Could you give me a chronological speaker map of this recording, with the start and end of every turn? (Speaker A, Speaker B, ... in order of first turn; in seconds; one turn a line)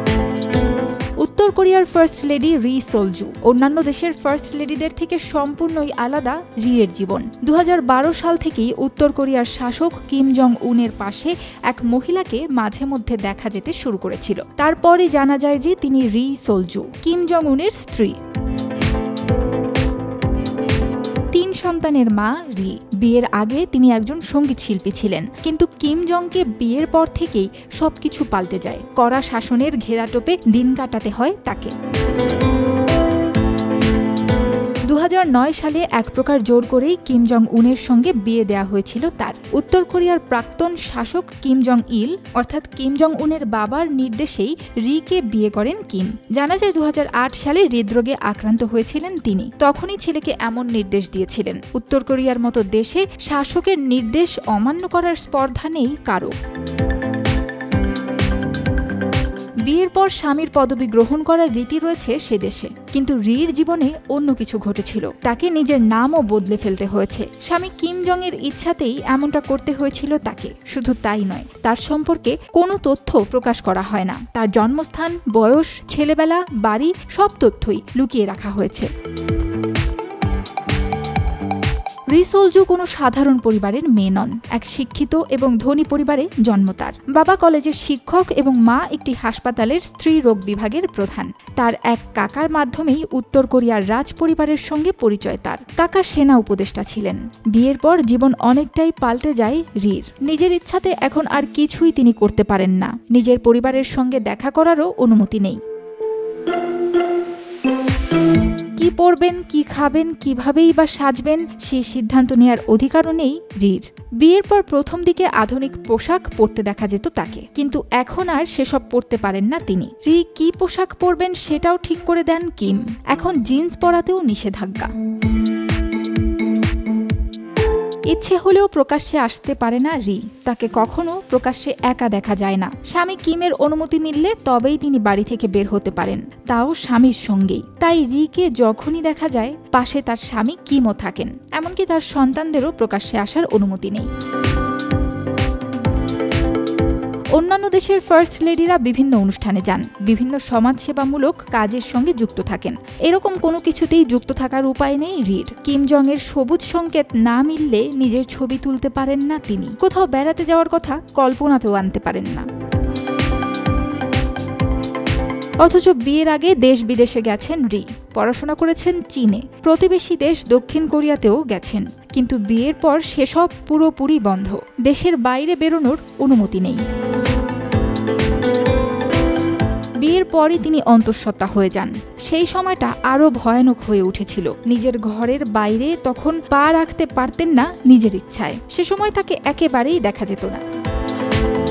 Speaker A: 1.2-18.2
Speaker A: 21.3-31.7
Speaker A: 34.9-56.4
Speaker A: 59.6-78.9
Speaker A: 82.1-105.6
Speaker A: 108.8-124.9
Speaker A: 128.1-144.1
Speaker A: 147.3-162.5
Speaker A: 165.6-176.8
Speaker A: 180.0-190.6